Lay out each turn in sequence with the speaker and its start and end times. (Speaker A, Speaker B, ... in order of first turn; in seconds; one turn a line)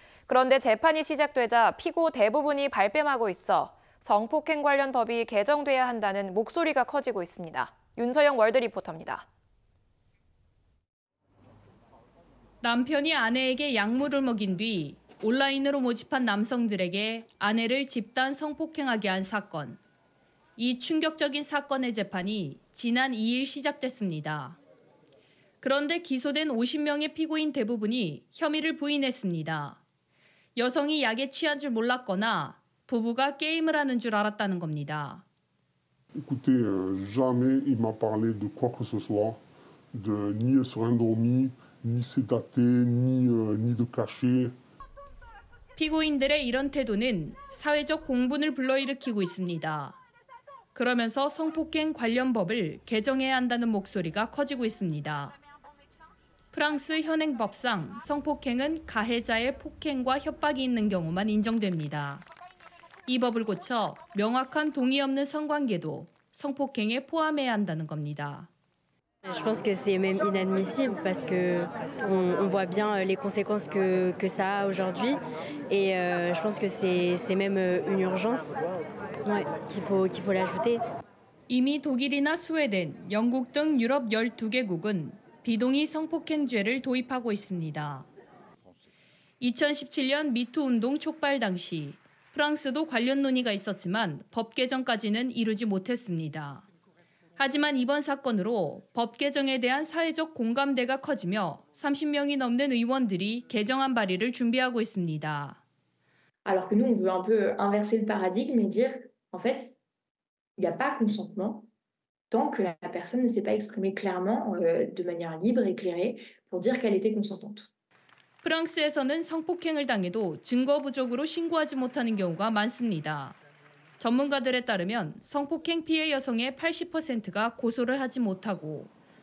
Speaker A: 0.3-9.2
Speaker B: 12.6-19.8
Speaker B: 20.6-24.6
Speaker B: 25.6-29.8
Speaker B: 30.6-35.2
Speaker C: 36.2-39.4
Speaker C: 39.9-44.5
Speaker B: 45.8-50.0
Speaker B: 50.7-55.4
Speaker B: 56.5-62.2
Speaker B: 63.0-68.5
Speaker D: 69.2-78.6
Speaker D: 79.2-80.8
Speaker B: 81.5-88.1
Speaker B: 89.4-96.7
Speaker B: 97.4-105.6
Speaker E: 106.4-109.7
Speaker E: 110.6-111.7
Speaker E: 112.3-117.7
Speaker B: 118.4-123.4
Speaker B: 124.0-128.9